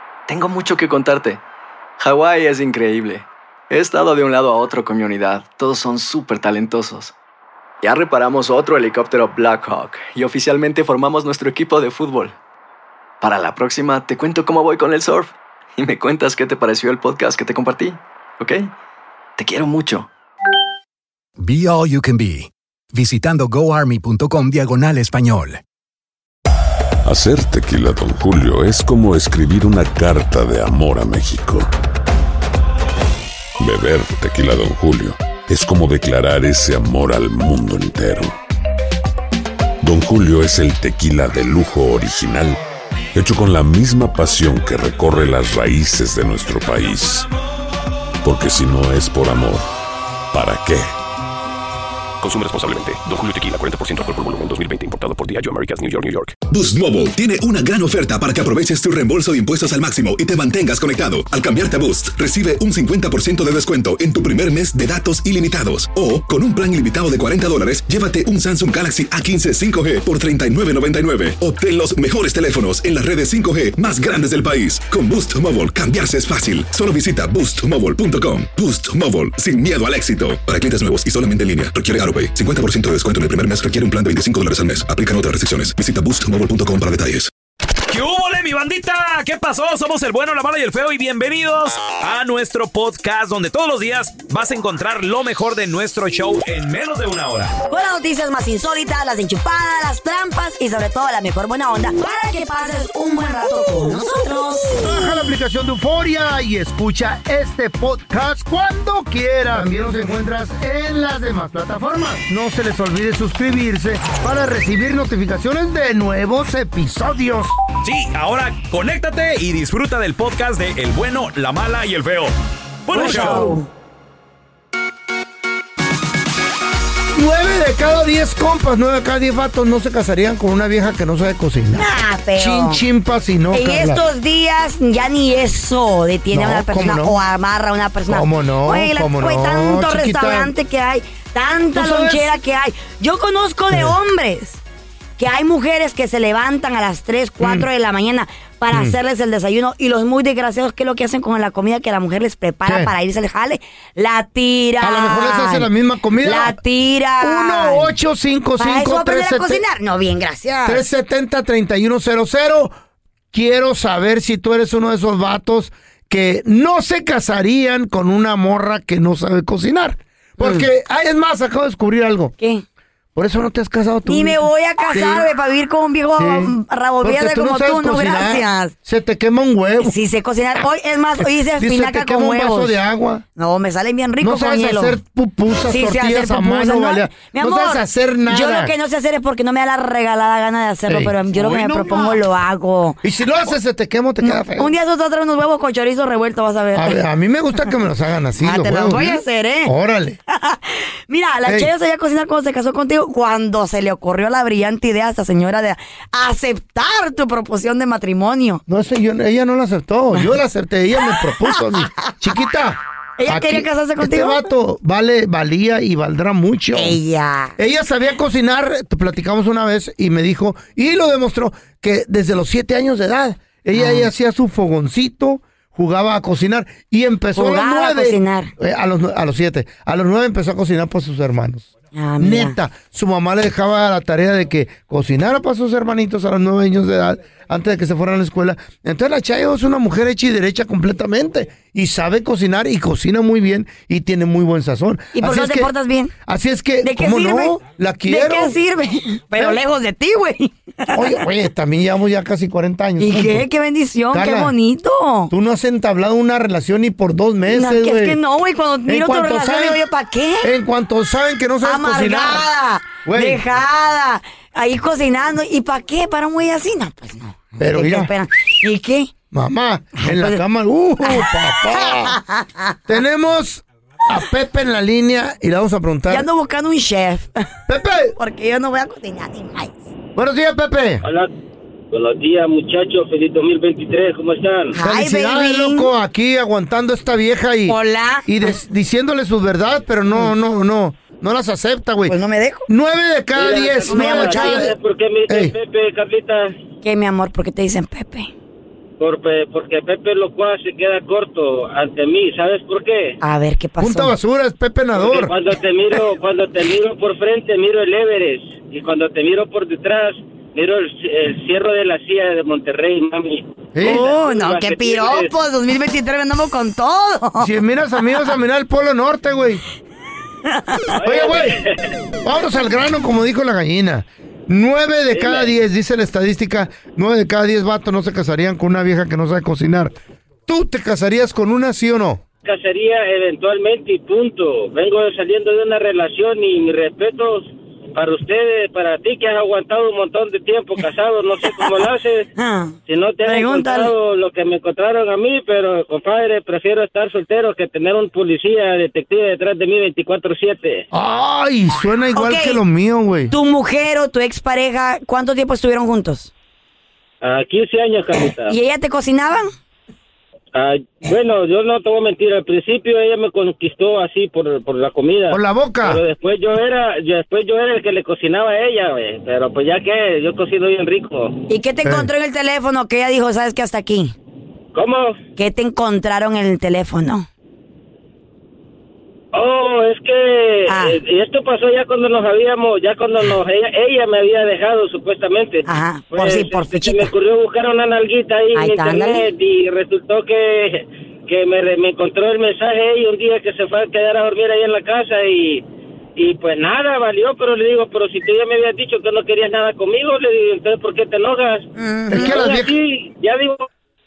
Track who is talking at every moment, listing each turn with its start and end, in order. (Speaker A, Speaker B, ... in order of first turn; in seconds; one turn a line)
Speaker A: 0.3-1.4
Speaker A: 2.0-7.1
Speaker A: 7.8-12.4
Speaker A: 13.2-18.7
Speaker A: 19.4-20.1
Speaker B: 21.4-25.6
Speaker C: 27.1-31.7
Speaker C: 33.6-38.3
Speaker C: 39.8-42.6
Speaker C: 43.1-47.3
Speaker C: 48.2-49.7
Speaker C: 50.3-50.9
Speaker D: 52.3-53.1
Speaker D: 53.6-56.2
Speaker E: 56.5-87.3
Speaker F: 87.9-97.5
Speaker G: 97.7-104.9
Speaker H: 104.8-117.5
Speaker F: 117.8-122.3
Speaker F: 122.8-123.6
Speaker G: 122.9-123.7
Speaker H: 123.0-123.5
Speaker H: 127.1-134.0
Speaker G: 131.7-132.8
Speaker G: 133.5-144.6
Speaker H: 136.3-137.1
Speaker H: 138.1-140.5
Speaker H: 141.7-142.4
Speaker H: 143.7-144.0
Speaker G: 145.2-155.7
Speaker H: 147.4-147.7
Speaker H: 148.7-149.0
Speaker H: 152.7-152.9
Speaker H: 154.8-156.6
Speaker G: 156.2-157.9
Speaker H: 157.2-159.6
Speaker G: 158.6-160.8
Speaker H: 160.7-162.7
Speaker H: 163.3-172.3
Speaker G: 170.4-170.7
Speaker H: 173.2-175.3
Speaker G: 174.1-178.7
Speaker H: 176.2-179.9
Speaker G: 179.8-182.8
Speaker H: 181.2-183.2
Speaker G: 183.4-185.0
Speaker H: 184.2-188.7
Speaker G: 185.7-193.0
Speaker H: 190.9-192.2
Speaker H: 193.0-194.7
Speaker G: 194.2-197.0
Speaker H: 196.7-200.2
Speaker G: 198.4-199.7
Speaker G: 200.3-208.6
Speaker H: 201.4-201.7
Speaker H: 208.7-217.0
Speaker G: 211.5-212.3
Speaker G: 213.2-214.4
Speaker G: 216.7-217.6
Speaker H: 217.6-245.7
Speaker G: 223.7-224.1
Speaker G: 227.4-228.5
Speaker G: 231.9-232.6
Speaker G: 245.2-246.1
Speaker H: 246.3-248.6
Speaker G: 246.8-251.2
Speaker H: 250.9-253.5
Speaker G: 253.0-255.3
Speaker H: 254.1-254.5
Speaker H: 255.3-258.2
Speaker G: 257.5-260.5
Speaker H: 258.9-259.8
Speaker H: 260.4-262.5
Speaker G: 261.6-269.1
Speaker H: 263.1-263.4
Speaker H: 267.6-268.1
Speaker H: 269.3-272.2
Speaker G: 270.0-270.4
Speaker G: 271.0-272.8
Speaker H: 272.9-276.3
Speaker G: 276.1-277.5
Speaker H: 277.7-278.2
Speaker G: 278.2-279.8
Speaker H: 280.2-281.0
Speaker I: 281.0-281.3
Speaker I: 281.9-284.7
Speaker G: 284.7-285.9
Speaker H: 284.8-292.1
Speaker G: 287.7-288.3
Speaker G: 292.1-292.7
Speaker H: 292.7-294.8
Speaker I: 293.4-296.6
Speaker G: 293.9-294.7
Speaker H: 295.3-295.5
Speaker G: 296.8-298.3
Speaker I: 299.0-303.2
Speaker G: 303.2-304.1
Speaker H: 303.8-305.3
Speaker I: 305.0-315.3
Speaker H: 313.8-314.1
Speaker G: 313.8-317.5
Speaker H: 317.4-319.6
Speaker G: 320.5-320.8
Speaker I: 320.9-321.9
Speaker H: 321.0-321.6
Speaker H: 322.2-330.0
Speaker I: 325.1-325.5
Speaker H: 330.5-332.2
Speaker I: 332.4-342.3
Speaker G: 342.4-342.7
Speaker I: 342.9-350.9
Speaker G: 343.2-343.9
Speaker H: 350.9-353.3
Speaker G: 352.1-352.6
Speaker G: 353.3-356.3
Speaker I: 357.2-358.6
Speaker G: 358.5-359.5
Speaker I: 360.5-371.4
Speaker H: 365.3-366.0
Speaker G: 371.5-374.1
Speaker H: 371.8-372.1
Speaker I: 374.7-375.2
Speaker G: 375.4-377.3
Speaker I: 379.3-395.6
Speaker G: 380.7-381.0
Speaker G: 385.7-387.1
Speaker G: 388.6-389.3
Speaker I: 396.2-403.7
Speaker G: 401.8-402.4
Speaker H: 402.1-402.7